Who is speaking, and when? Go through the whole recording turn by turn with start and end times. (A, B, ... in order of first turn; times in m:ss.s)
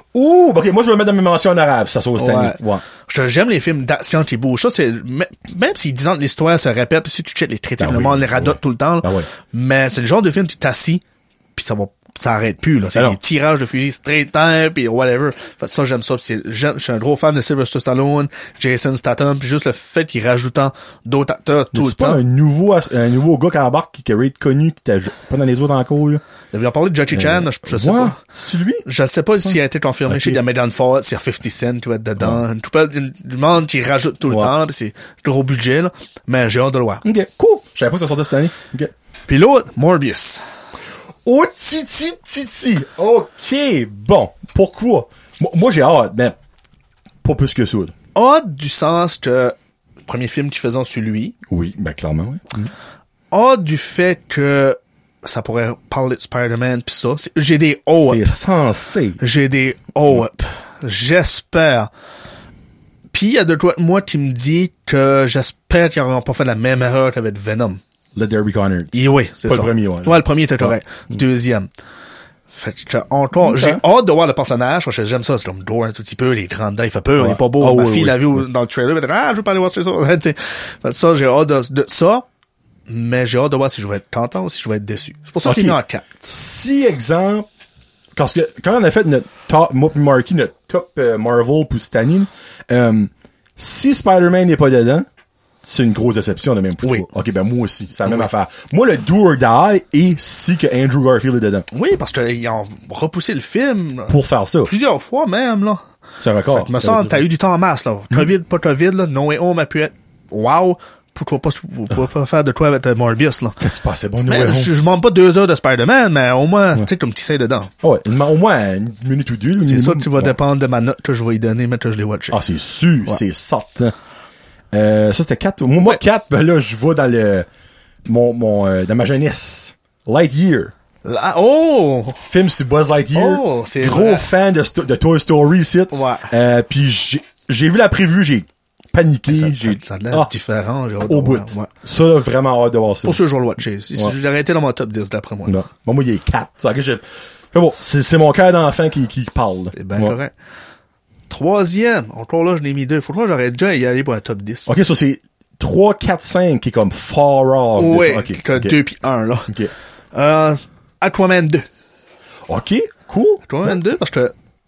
0:00.1-0:02.8 A
0:02.2-0:11.0 B
0:07.8-0:09.3 A
0:11.5-0:22.2 B
0:21.7-0:26.2 A
0:26.5-0:28.2 B
0:27.1-0:28.8 A
0:28.8-0:37.0 B
0:30.1-0:30.4 A
0:34.2-0:34.5 A
0:37.0-0:38.9 A
0:39.3-0:40.4 B
0:41.2-0:46.4 A
0:47.2-0:47.9 A
0:48.1-0:51.4 B
0:51.5-0:52.7 A
0:53.3-0:58.3 B
0:58.1-0:59.2 A
0:59.2-1:01.9 B
1:03.1-1:07.8 B
1:08.1-1:10.8 A
1:08.9-1:11.7 B
1:12.5-1:22.2 B
1:13.4-1:13.8 A
1:17.2-1:18.4 A
1:22.9-1:26.3 B
1:25.4-1:27.4 A
1:28.2-1:35.1 A
1:35.6-1:41.6 A
1:36.8-1:37.1 B
1:41.7-1:45.8 B
1:44.1-1:44.7 A
1:46.2-1:47.2 A
1:46.5-1:53.6 B
1:53.6-1:54.7 A
1:54.3-1:57.7 B
1:57.8-2:00.3 A
1:59.6-2:02.4 B
2:02.3-2:04.0 A
2:04.7-2:07.5 A
2:08.0-2:10.7 A
2:11.0-2:12.2 B
2:12.2-2:20.3 A
2:13.1-2:14.3 B
2:15.9-2:16.3 B
2:19.3-2:21.7 B
2:21.0-2:23.2 A
2:23.0-2:25.6 B
2:25.4-2:30.2 A
2:29.7-2:30.3 B
2:31.3-2:34.7 B
2:34.6-2:38.8 A
2:37.8-2:39.5 B
2:39.5-2:39.7 A
2:40.1-2:41.6 B
2:42.5-2:43.8 A
2:43.5-2:44.3 B